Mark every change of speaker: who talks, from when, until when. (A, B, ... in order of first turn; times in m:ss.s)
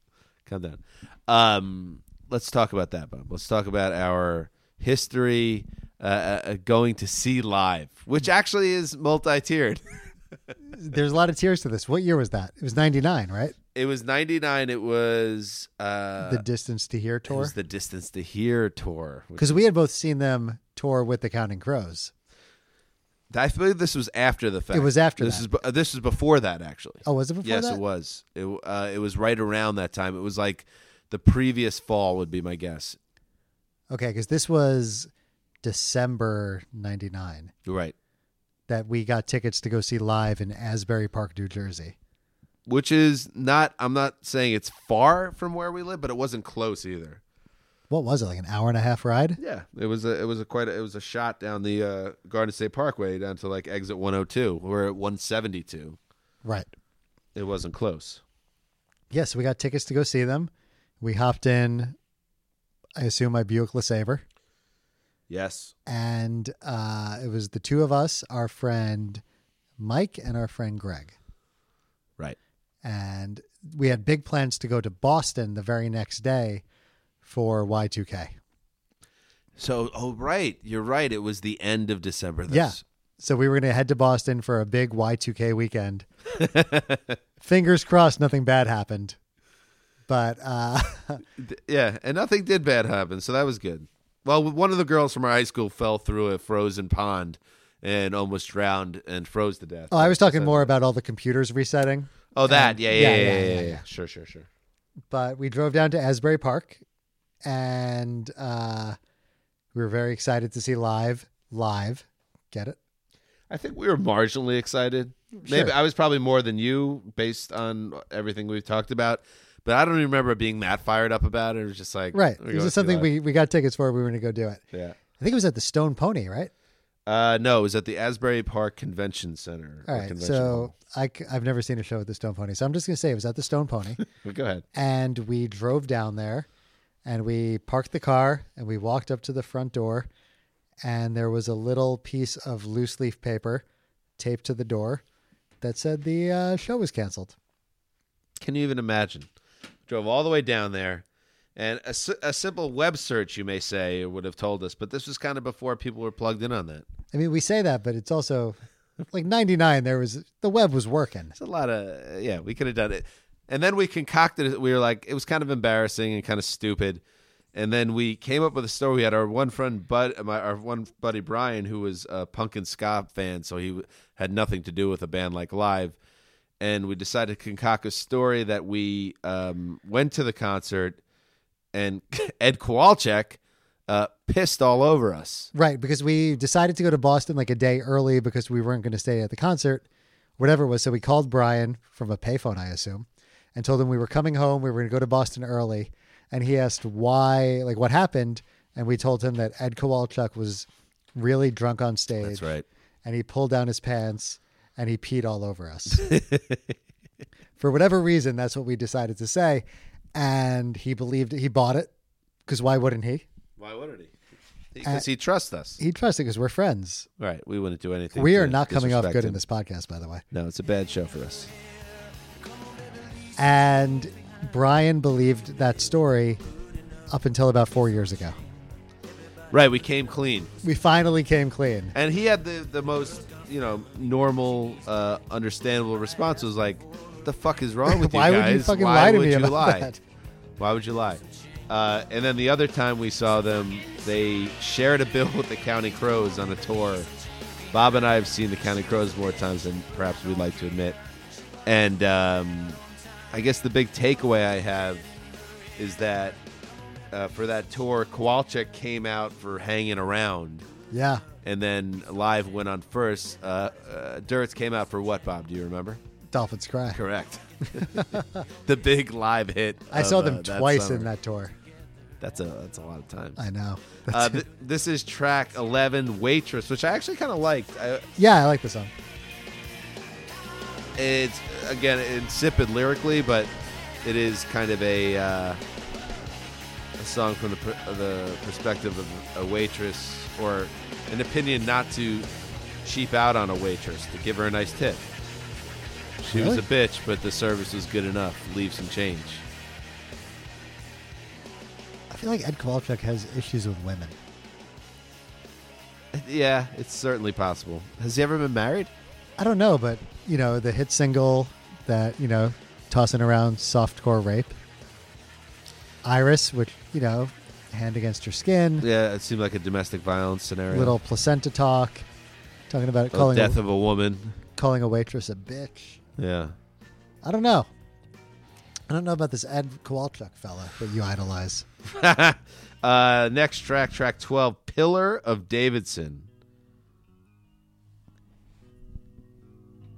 0:00.4-0:10.1 A
0:10.7-0:13.6 B
0:13.7-0:16.4 A
0:16.2-0:17.6 B
0:17.3-0:19.6 A
0:19.4-0:22.1 B
0:23.3-0:33.0 A
0:24.7-0:25.5 B
0:27.0-0:27.8 B
0:33.9-0:35.1 B
0:35.6-0:37.5 B
0:37.6-0:38.0 A
0:38.7-0:42.0 B
0:42.6-0:47.2 A
0:47.9-0:49.4 B
0:49.4-0:56.0 A
0:56.4-0:56.7 B
0:57.3-0:58.2 A
0:59.1-1:02.0 B
1:03.0-1:04.2 B
1:05.3-1:05.7 A
1:05.9-1:09.2 B
1:09.8-1:11.1 B
1:12.8-1:16.6 B
1:17.2-1:18.4 B
1:19.6-1:22.8 A
1:22.5-1:26.0 B
1:26.3-1:27.2 A
1:27.4-1:29.2 B
1:30.1-1:31.2 B
1:31.4-1:40.7 A
1:39.9-1:43.8 B
1:42.3-1:44.5 A
1:45.1-1:46.8 B
1:47.4-1:49.0 B
1:49.7-1:52.8 B
1:53.5-2:03.1 A
1:55.4-1:55.7 B
2:02.1-2:04.6 B
2:04.7-2:05.0 A
2:05.2-2:06.5 B
2:07.0-2:10.7 A
2:09.9-2:14.0 B
2:14.0-2:14.6 A
2:14.7-2:16.5 B
2:17.0-2:20.1 B
2:20.8-2:23.6 B
2:24.2-2:25.0 B
2:25.6-2:27.3 B
2:28.4-2:29.3 A
2:29.9-2:31.0 A
2:31.6-2:36.9 A
2:37.1-2:38.6 B
2:39.1-2:41.3 B
2:41.4-2:47.0 A
2:47.5-2:56.0 A
2:56.6-3:01.0 A
3:01.7-3:05.5 A
3:05.5-3:09.8 B
3:10.4-3:22.5 B
3:22.2-3:22.6 A
3:23.0-3:26.2 B
3:26.1-3:26.7 A
3:27.6-3:31.9 B
3:32.4-3:33.3 B
3:33.6-3:34.1 A
3:34.7-3:35.8 A
3:35.8-3:37.1 B
3:37.2-3:39.4 A
3:38.1-3:40.2 B
3:40.3-3:41.5 A
3:43.4-3:46.4 B
3:47.1-3:48.4 B
3:49.5-3:50.5 A
3:50.6-3:52.0 B
3:51.9-3:59.9 A
3:57.9-4:00.0 B
4:00.6-4:07.1 A
4:07.7-4:11.0 A
4:11.6-4:12.8 A
4:13.3-4:15.1 A
4:15.8-4:16.4 A
4:17.1-4:20.6 A
4:20.9-4:21.2 B
4:21.4-4:26.0 A
4:26.3-4:27.0 B
4:26.9-4:31.1 A
4:27.8-4:28.4 B
4:29.9-4:31.6 B
4:32.2-4:33.4 A
4:33.4-4:34.4 B
4:34.1-4:38.0 A
4:38.2-4:38.9 B
4:41.0-4:43.5 A
4:44.0-4:45.6 A
4:47.0-4:52.3 A
4:52.8-4:55.0 A
4:56.2-4:59.4 A
4:56.3-4:56.6 B
5:02.1-5:04.2 B
5:06.1-5:08.9 A
5:09.4-5:14.6 B
5:16.0-5:18.9 B
5:18.8-5:21.0 A
5:20.7-5:22.0 B
5:22.7-5:23.6 B
5:23.1-5:24.3 A
5:24.6-5:26.0 B
5:26.2-5:26.6 A
5:27.2-5:27.7 B
5:28.9-5:31.7 B
5:31.8-5:36.3 A